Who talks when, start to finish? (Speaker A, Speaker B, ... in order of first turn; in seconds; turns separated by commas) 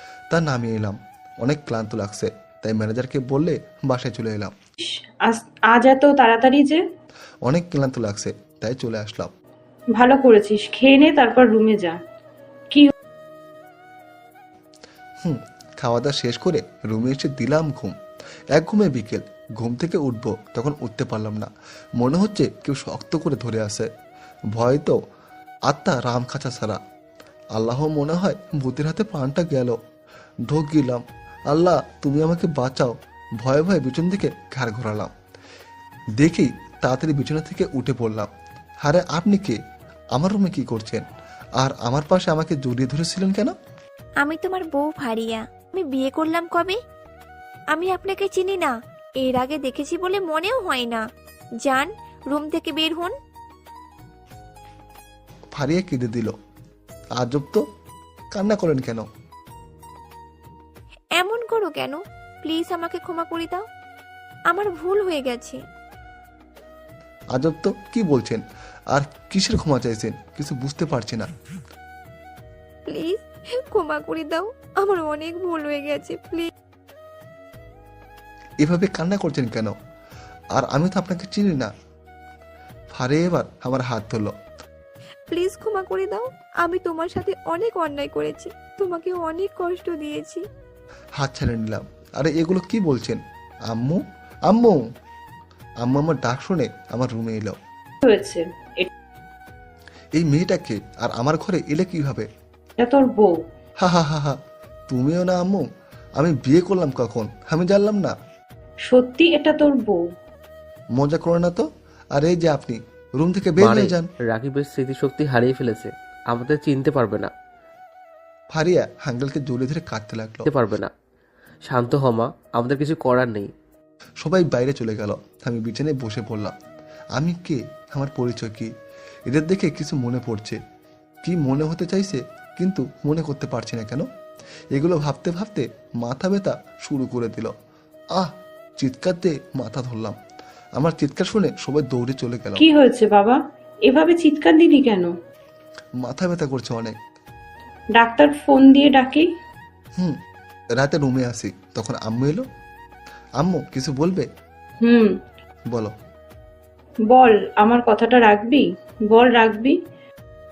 Speaker A: 0.3-4.5, Speaker B: 4.8-6.8, Speaker A: 7.5-9.3, Speaker B: 9.9-12.0, Speaker A: 15.2-17.9, Speaker A: 18.5-23.9, Speaker A: 24.5-25.0, Speaker A: 25.7-26.8, Speaker A: 27.5-29.8, Speaker A: 30.5-35.1, Speaker A: 36.2-38.3, Speaker A: 38.8-39.6, Speaker A: 40.1-41.0, Speaker A: 41.6-43.5, Speaker C: 44.2-46.8, Speaker C: 47.7-51.0, Speaker C: 51.6-53.1, Speaker A: 55.5-56.3, Speaker A: 57.1-57.6, Speaker A: 58.3-59.0, Speaker C: 61.1-63.7, Speaker C: 64.5-65.6, Speaker A: 67.3-71.3, Speaker C: 72.9-76.5, Speaker A: 78.6-79.8, Speaker A: 80.5-81.7, Speaker A: 82.9-84.3, Speaker C: 85.3-90.4, Speaker A: 91.2-94.8, Speaker A: 95.8-97.6, Speaker B: 98.0-98.9, Speaker A: 100.1-102.3, Speaker B: 102.8-103.4, Speaker A: 103.8-105.7, Speaker A: 106.2-108.1, Speaker B: 108.9-110.0, Speaker A: 111.0-114.1, Speaker D: 113.6-117.3, Speaker A: 118.5-120.5, Speaker D: 120.5-120.9, Speaker D: 121.7-123.5, Speaker A: 124.2-126.5, Speaker A: 127.2-128.7, Speaker A: 129.3-130.6, Speaker A: 131.2-134.1, Speaker A: 134.7-137.5, Speaker A: 138.1-140.2, Speaker A: 140.8-142.6, Speaker B: 142.6-145.1, Speaker A: 146.0-147.0, Speaker B: 147.9-149.3, Speaker A: 150.8-152.4, Speaker A: 153.4-154.3, Speaker B: 154.8-155.2, Speaker B: 157.1-159.8